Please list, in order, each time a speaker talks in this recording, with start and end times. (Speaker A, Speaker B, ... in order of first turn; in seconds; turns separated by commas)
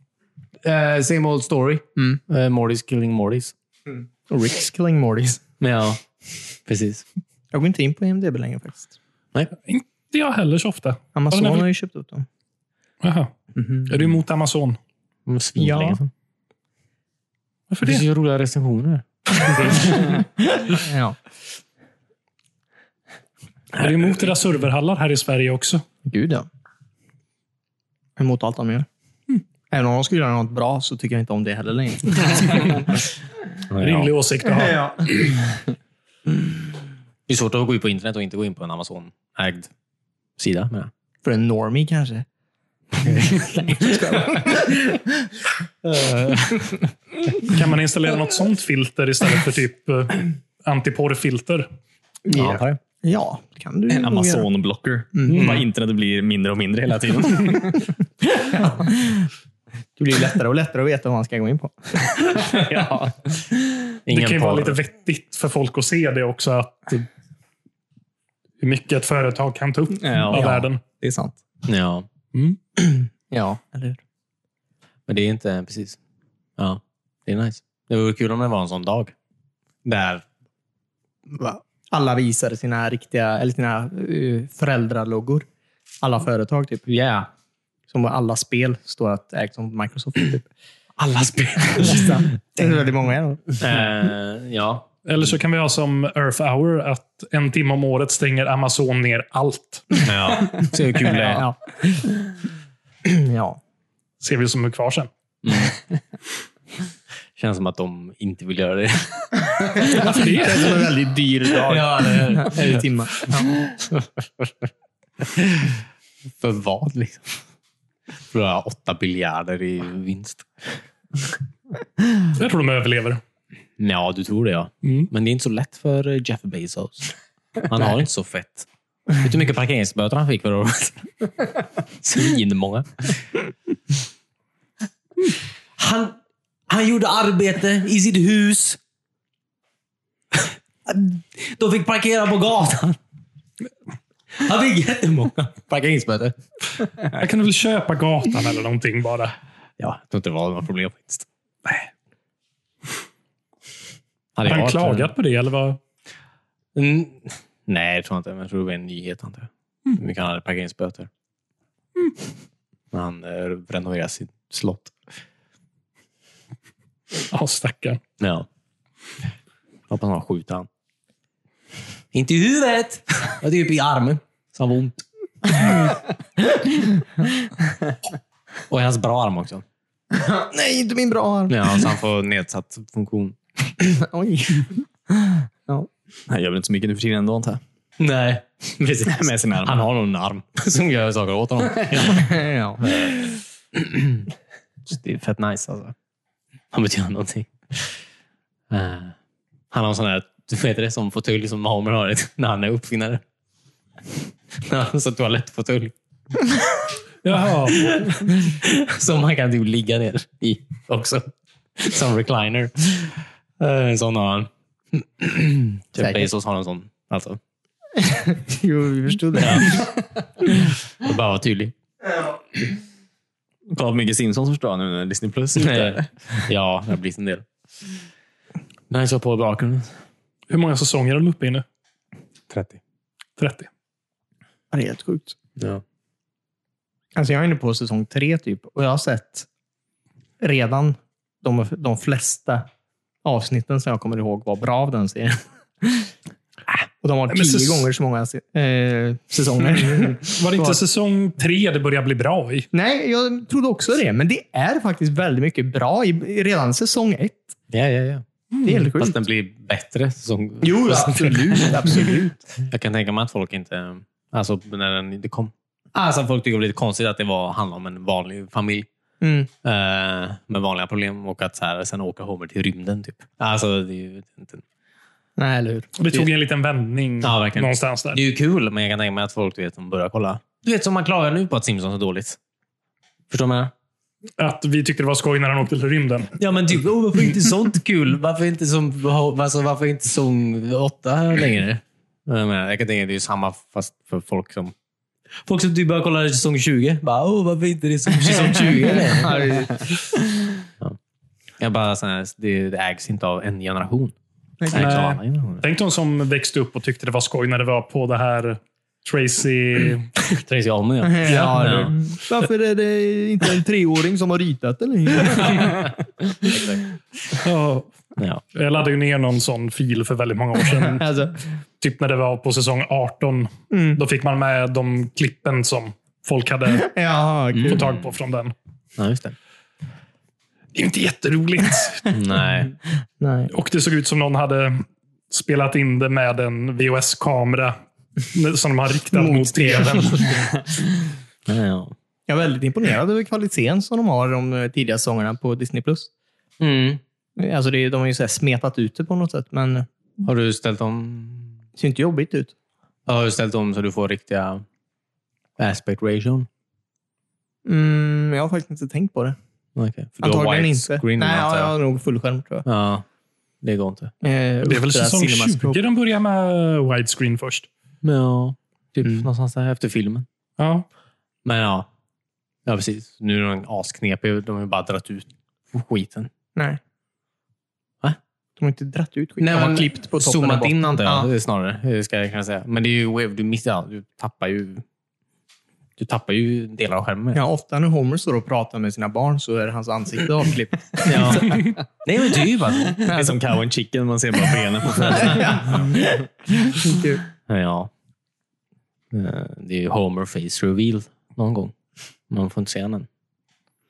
Speaker A: 0.6-3.5, Speaker B: 4.3-5.4, Speaker A: 5.6-6.0, Speaker A: 6.7-7.0, Speaker B: 7.5-8.9, Speaker C: 9.7-11.7, Speaker B: 11.1-12.2, Speaker C: 13.0-14.8, Speaker A: 15.2-16.1, Speaker B: 15.6-16.0, Speaker C: 17.7-18.0, Speaker A: 17.8-20.1, Speaker B: 20.1-21.1, Speaker A: 23.7-24.2, Speaker C: 23.8-25.8, Speaker B: 26.1-26.5, Speaker B: 28.2-28.9, Speaker B: 29.7-32.8, Speaker A: 33.7-34.1, Speaker C: 33.8-34.8, Speaker B: 34.5-35.3, Speaker A: 37.3-39.7, Speaker A: 40.4-40.9, Speaker B: 41.2-42.2, Speaker A: 42.9-44.6, Speaker B: 43.4-45.1, Speaker A: 45.8-46.8, Speaker C: 47.4-51.7, Speaker A: 52.3-52.8, Speaker B: 52.3-54.5, Speaker D: 53.9-57.9, Speaker B: 55.1-55.5, Speaker A: 55.3-55.7, Speaker B: 58.3-59.2, Speaker B: 60.0-62.9, Speaker D: 62.5-63.1, Speaker A: 64.0-64.8, Speaker C: 64.1-67.1, Speaker C: 68.6-70.8, Speaker D: 70.0-71.3, Speaker A: 71.6-72.0, Speaker B: 72.8-74.0, Speaker A: 75.1-76.0, Speaker A: 76.6-79.1, Speaker A: 79.8-80.2, Speaker B: 81.4-85.5, Speaker B: 86.0-86.8, Speaker A: 86.9-87.3, Speaker B: 87.9-90.5, Speaker A: 91.0-92.7, Speaker B: 91.6-93.6, Speaker A: 93.6-94.9, Speaker C: 95.0-100.0, Speaker A: 100.0-101.5, Speaker B: 101.0-102.2, Speaker B: 103.0-103.6, Speaker C: 104.2-105.1, Speaker A: 105.4-105.8, Speaker A: 107.3-110.0, Speaker B: 109.9-113.6, Speaker C: 109.9-110.8, Speaker A: 111.6-114.7, Speaker A: 115.2-115.8, Speaker A: 116.4-117.4, Speaker A: 118.3-120.8, Speaker C: 122.3-123.2, Speaker A: 123.8-128.7, Speaker C: 124.8-125.1, Speaker A: 129.2-131.1, Speaker A: 132.0-133.1, Speaker A: 135.8-136.2, Speaker A: 136.7-138.8, Speaker A: 140.3-143.0, Speaker A: 144.3-146.3, Speaker C: 147.1-149.3, Speaker A: 149.8-151.2, Speaker A: 154.3-155.1, Speaker C: 154.4-155.8, Speaker A: 156.7-161.1, Speaker A: 162.9-164.9, Speaker C: 167.3-168.0, Speaker A: 168.2-168.5, Speaker A: 169.9-170.7, Speaker A: 172.1-175.7, Speaker A: 178.7-179.6, Speaker B: 180.1-181.7, Speaker A: 181.5-183.3, Speaker B: 183.8-185.9, Speaker D: 186.3-187.6, Speaker A: 188.0-194.3, Speaker D: 189.1-189.8, Speaker B: 192.0-193.1, Speaker A: 194.8-195.9, Speaker A: 196.7-198.0, Speaker A: 198.7-199.1, Speaker A: 199.7-203.2, Speaker A: 204.6-205.9, Speaker C: 207.2-207.9, Speaker A: 207.6-217.4, Speaker B: 216.0-216.3, Speaker B: 217.9-219.9, Speaker A: 219.3-219.8, Speaker A: 221.0-221.7, Speaker D: 223.7-226.1, Speaker A: 225.6-227.4, Speaker A: 228.9-229.9, Speaker C: 230.5-231.6, Speaker A: 232.5-232.8, Speaker C: 233.4-233.7, Speaker B: 234.7-235.3, Speaker A: 235.6-235.8, Speaker B: 237.1-239.5, Speaker B: 240.4-242.7, Speaker B: 243.2-246.1, Speaker B: 247.0-250.8, Speaker C: 247.3-247.8, Speaker C: 250.2-252.7, Speaker B: 252.7-257.6, Speaker A: 257.7-258.2, Speaker C: 258.5-258.8, Speaker B: 258.6-259.2, Speaker A: 258.9-268.9, Speaker B: 260.6-262.4, Speaker B: 269.2-269.5, Speaker A: 269.6-274.6, Speaker B: 275.4-275.9, Speaker C: 275.9-278.2, Speaker A: 277.2-282.4, Speaker A: 283.3-283.7, Speaker C: 284.4-286.3, Speaker A: 286.4-294.7, Speaker A: 295.4-299.6, Speaker B: 298.7-300.2, Speaker A: 301.6-304.1, Speaker B: 304.6-304.9, Speaker A: 304.7-305.6, Speaker C: 304.7-310.1, Speaker A: 310.2-311.9, Speaker B: 311.0-315.9, Speaker C: 311.2-311.9, Speaker A: 316.5-316.8, Speaker C: 317.4-317.9, Speaker A: 318.2-318.4, Speaker C: 318.5-321.0, Speaker B: 320.9-321.4, Speaker C: 321.8-326.9, Speaker B: 323.7-324.0, Speaker B: 326.8-327.8, Speaker A: 327.5-327.9, Speaker C: 327.7-328.5, Speaker A: 329.0-329.4, Speaker C: 330.7-332.1, Speaker A: 332.1-332.7, Speaker B: 333.2-333.5, Speaker C: 333.5-337.8, Speaker C: 338.3-340.5, Speaker B: 339.1-340.5, Speaker A: 341.5-341.9, Speaker B: 342.3-346.1, Speaker A: 346.6-347.0, Speaker B: 347.4-349.9, Speaker A: 350.2-351.6, Speaker B: 351.8-352.5, Speaker A: 353.1-354.6, Speaker A: 355.6-356.5, Speaker B: 357.6-359.4, Speaker A: 359.8-361.7, Speaker B: 360.2-362.6, Speaker A: 362.6-363.0, Speaker A: 363.6-364.1, Speaker B: 364.2-365.8, Speaker C: 364.6-367.7, Speaker A: 368.0-370.2, Speaker C: 370.6-370.9, Speaker A: 371.4-371.9, Speaker A: 372.6-376.3, Speaker B: 378.6-381.3, Speaker A: 379.4-384.8, Speaker A: 386.0-387.4, Speaker B: 387.3-391.6, Speaker A: 391.0-393.3, Speaker D: 393.0-395.9, Speaker B: 395.1-397.2, Speaker A: 397.5-397.9, Speaker A: 399.1-401.7, Speaker A: 402.3-403.1